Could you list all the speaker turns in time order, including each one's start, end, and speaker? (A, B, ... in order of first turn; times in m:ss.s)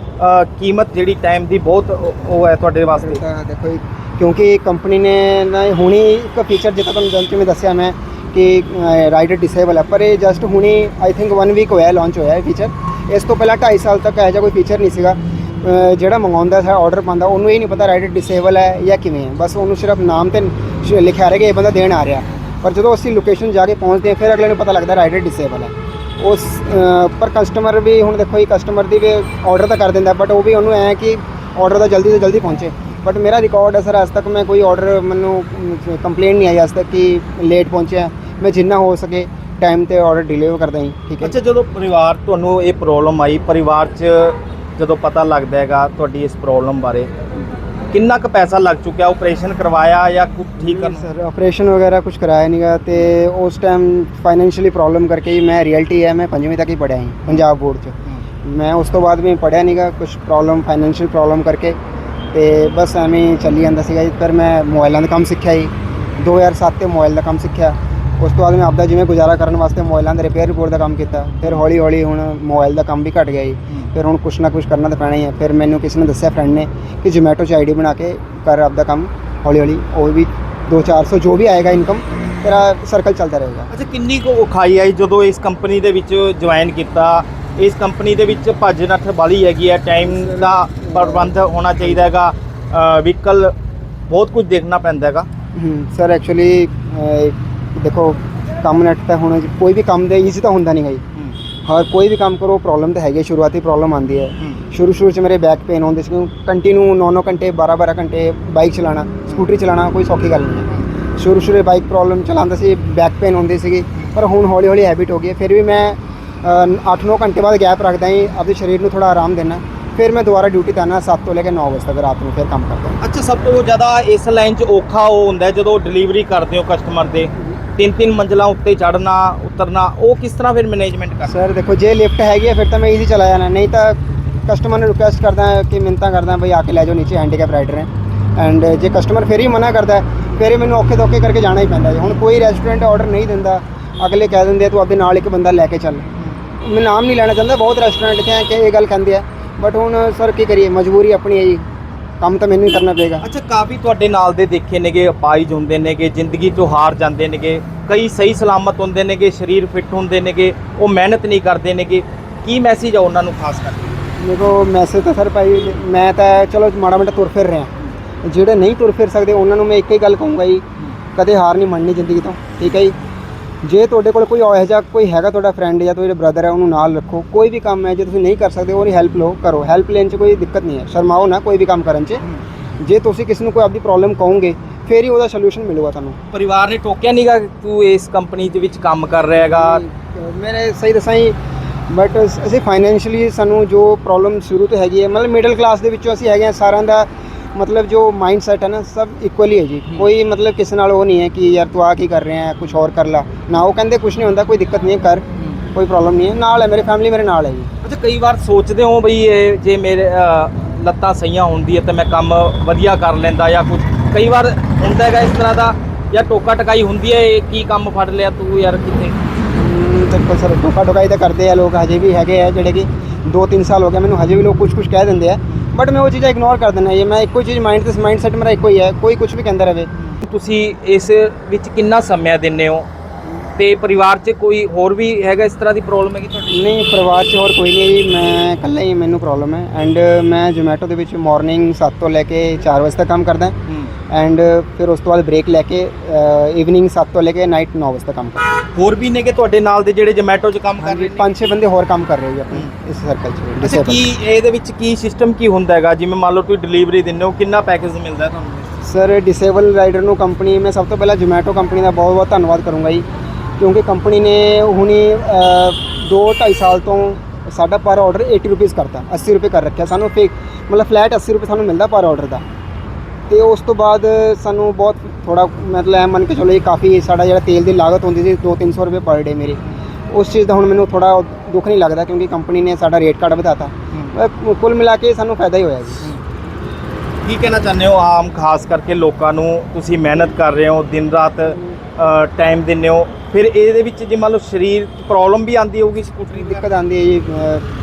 0:00.2-0:03.2 A
0:02.9-0:41.4 B
0:41.2-0:47.1 A
0:47.9-0:51.1 A
0:50.6-1:01.8 B
1:02.3-1:23.7 B
1:23.7-1:33.5 A
1:30.0-1:31.6 B
1:34.1-1:35.3 A
1:35.6-1:41.0 B
1:41.6-2:03.0 B
2:03.0-2:11.3 A
2:11.3-2:26.1 B
2:26.6-2:31.7 B
2:32.2-2:33.2 B
2:33.2-2:44.0 A
2:44.2-2:47.7 B
2:48.2-2:50.6 B
2:51.2-2:53.0 B
2:53.6-3:02.2 B
3:02.8-3:06.2 B
3:06.3-3:09.8 A
3:09.4-3:11.4 B
3:11.9-3:27.7 B
3:27.8-3:39.2 A
3:39.5-3:49.9 B
3:50.0-3:52.9 A
3:53.6-3:56.7 A
3:56.5-4:03.6 B
4:04.1-4:08.5 B
4:08.8-4:11.4 A
4:10.8-4:14.1 B
4:13.6-4:18.8 A
4:18.8-4:23.0 B
4:23.6-4:32.4 B
4:33.3-4:46.1 B
4:47.2-4:56.7 A
4:56.3-4:57.6 B